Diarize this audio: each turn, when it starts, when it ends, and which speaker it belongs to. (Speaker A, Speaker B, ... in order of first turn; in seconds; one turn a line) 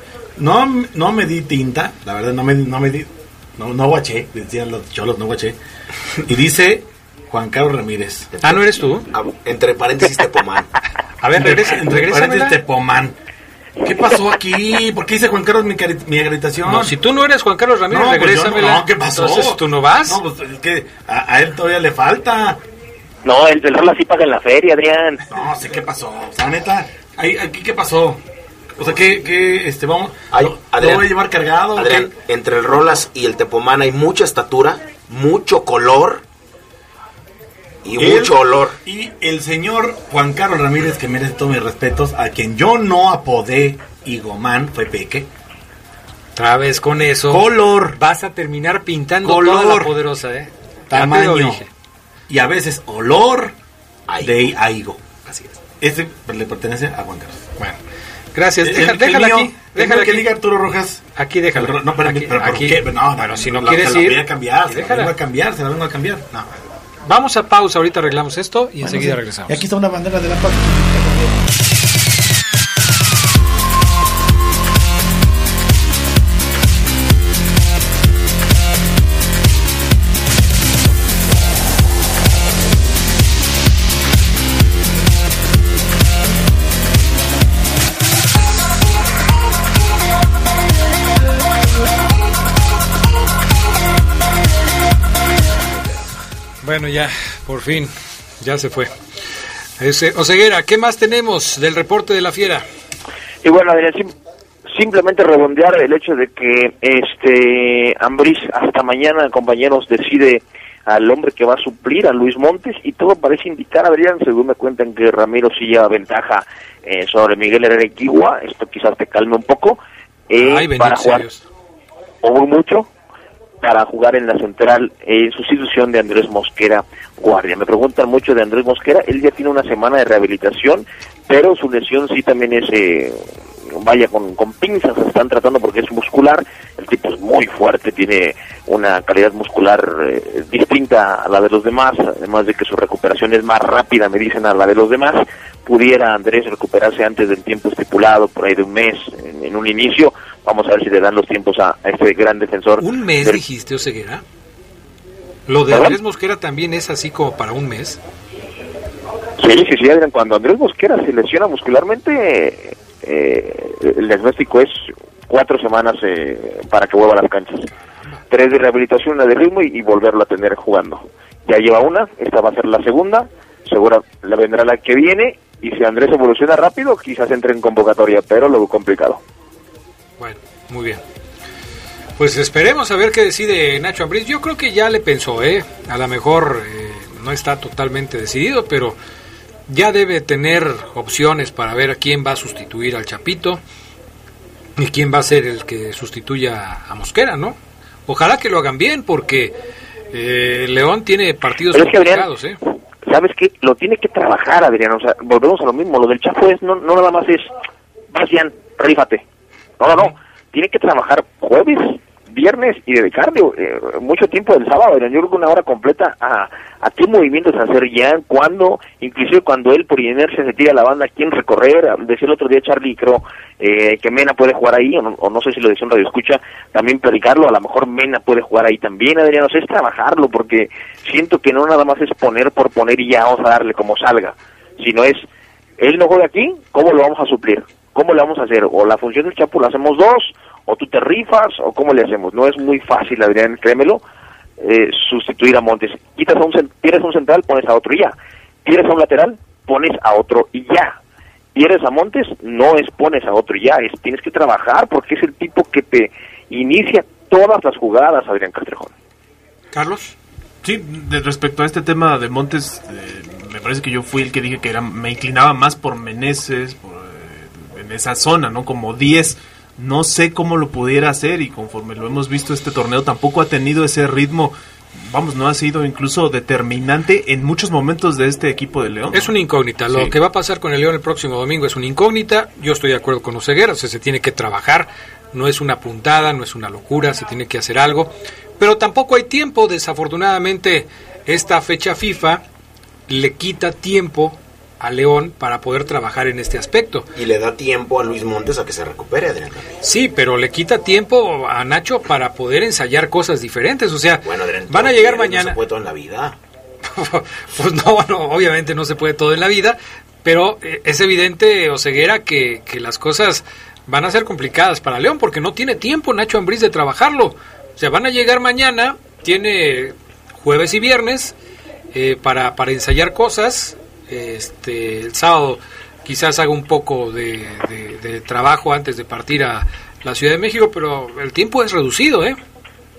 Speaker A: 0.4-5.6
Speaker A: 6.2-8.3
Speaker B: 8.3-10.7
Speaker C: 8.4-9.1
Speaker C: 11.2-12.6
Speaker A: 11.4-13.2
Speaker A: 13.8-16.9
Speaker C: 16.7-20.2
Speaker A: 17.9-22.6
Speaker D: 23.2-25.2
Speaker A: 25.3-28.2
Speaker A: 28.8-32.1
Speaker B: 30.3-31.1
Speaker B: 31.8-36.2
Speaker B: 37.8-38.8
Speaker A: 38.0-45.3
Speaker C: 46.4-51.7
Speaker A: 47.3-48.0
Speaker A: 49.2-49.9
Speaker A: 50.9-51.6
Speaker A: 52.3-53.5
Speaker B: 54.1-54.5
Speaker A: 54.2-55.0
Speaker B: 55.2-55.6
Speaker A: 55.8-57.4
Speaker C: 58.4-60.3
Speaker A: 58.6-61.0
Speaker C: 61.1-65.1
Speaker A: 61.5-66.5
Speaker C: 67.0-69.6
Speaker A: 68.8-71.4
Speaker C: 96.6-98.9
Speaker C: 99.8-102.7
Speaker D: 103.4-104.1
Speaker D: 104.7-121.3
Speaker C: 120.3-121.4
Speaker D: 122.2-122.9
Speaker D: 123.6-153.4
Speaker C: 152.8-154.2
Speaker C: 155.5-158.0
Speaker D: 155.7-156.0
Speaker D: 159.4-167.7
Speaker D: 168.3-179.2
Speaker C: 180.2-181.0
Speaker C: 182.2-189.0
Speaker C: 189.7-193.6
Speaker C: 194.8-199.6
Speaker C: 200.1-202.6
Speaker D: 201.7-202.3
Speaker D: 203.1-207.5
Speaker D: 208.1-209.2
Speaker D: 209.8-235.2
Speaker D: 235.8-244.0
Speaker D: 244.6-251.0
Speaker D: 251.6-258.9
Speaker C: 259.7-260.1
Speaker E: 260.6-279.4
Speaker C: 279.1-292.4
Speaker C: 293.1-297.1
Speaker B: 297.1-299.9
Speaker C: 299.8-305.6
Speaker B: 304.2-306.4
Speaker C: 306.9-321.4
Speaker C: 321.9-332.4